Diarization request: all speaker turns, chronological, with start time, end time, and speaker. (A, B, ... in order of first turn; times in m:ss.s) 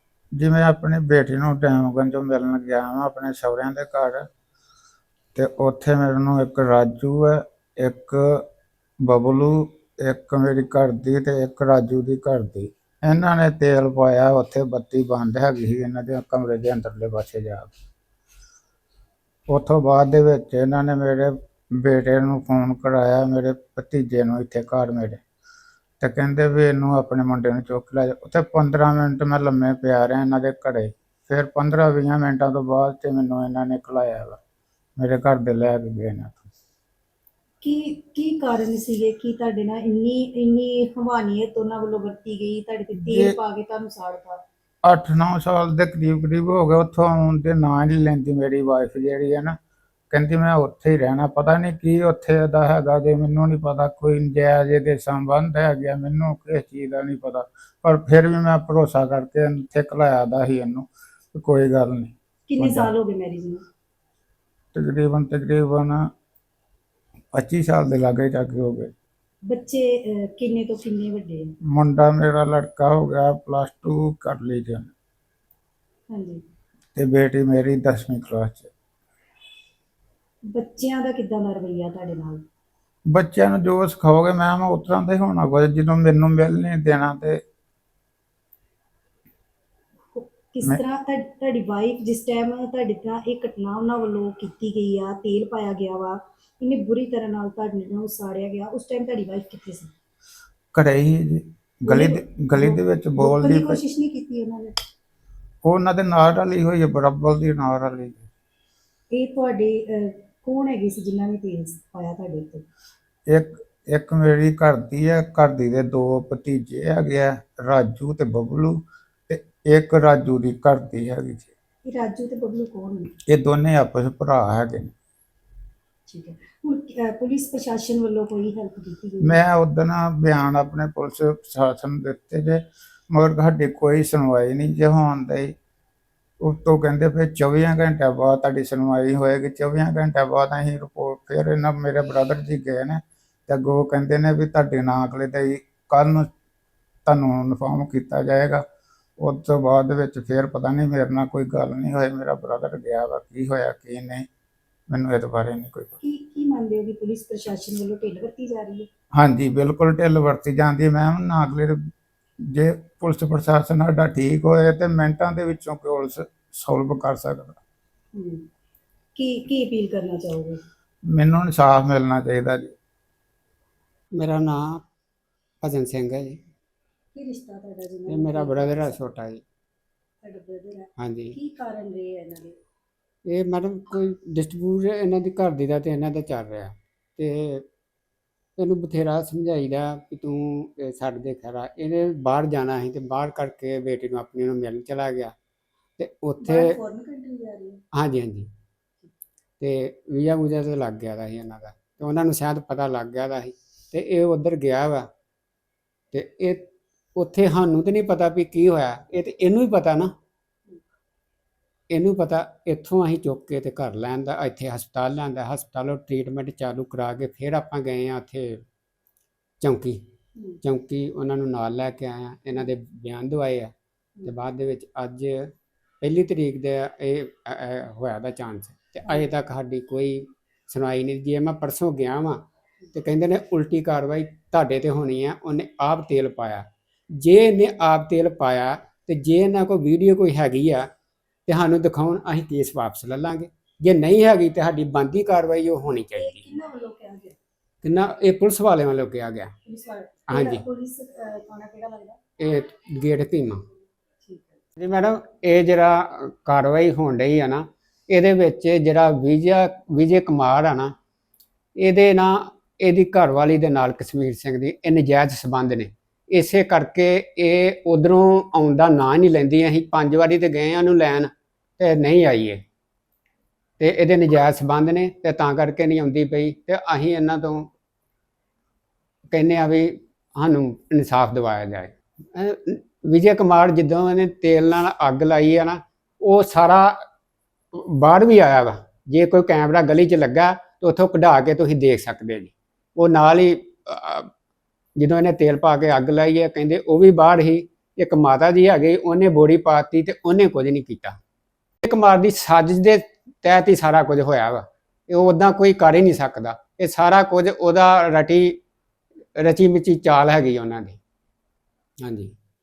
0:00.4-0:04.3 A
0:05.3-0:08.4 A
0:09.0-0:17.7 A
0:19.5-0:25.2 A
0:26.0-0:34.4 A
0:35.0-0:36.4 A
0:37.6-0:44.4 B
0:43.0-0:43.4 A
0:44.8-0:49.6 A
0:50.1-1:02.9 A
1:02.5-1:03.6 B
1:04.7-1:06.1 A
1:07.3-1:08.9 A
1:09.4-1:11.5 B
1:11.7-1:14.9 A
1:16.1-1:16.4 B
1:16.9-1:18.7 A
1:20.5-1:22.4 B
1:23.1-1:27.4 A
1:30.1-1:39.9 B
1:40.7-1:43.8 A
1:41.9-1:44.7 B
1:45.6-1:48.3 A
1:49.1-1:52.6 B
1:53.3-2:01.5 A
2:01.8-2:03.1 B
2:03.3-2:04.9 A
2:06.1-2:09.4 B
2:09.2-2:15.5 A
2:16.4-2:26.3 A
2:27.0-2:28.6 A
2:29.2-2:34.3 A
2:34.9-2:35.9 A
2:36.0-2:38.9 B
2:39.1-2:41.8 A
2:42.4-2:47.6 A
2:48.1-2:48.4 B
2:49.2-2:50.6 B
2:51.1-2:52.7 A
2:54.1-2:54.8 C
2:55.6-2:56.4 C
2:57.1-2:59.0 B
2:58.1-2:59.4 C
3:00.2-3:02.6 B
3:01.0-3:01.4 C
3:03.2-3:07.6 C
3:08.6-3:15.3 C
3:16.0-3:16.8 C
3:16.4-3:17.8 B
3:17.9-3:18.5 C
3:19.6-3:25.1 C
3:26.1-3:30.1 C
3:31.9-3:38.6 C
3:39.6-3:40.0 C
3:40.6-3:43.7 C
3:44.2-4:00.9 C
4:01.5-4:06.5 C
4:06.1-4:07.4 B
4:07.8-4:09.5 C
4:09.6-4:12.2 B
4:10.3-4:10.6 C
4:12.4-4:13.6 C
4:14.2-4:14.6 B
4:14.8-4:20.9 C
4:21.8-4:32.6 C
4:33.8-4:37.7 C
4:39.3-4:47.0 C
4:47.7-4:54.3 C
4:55.0-5:01.2 C
5:01.8-5:08.6 C
5:09.4-5:11.0 C
5:12.0-5:12.3 C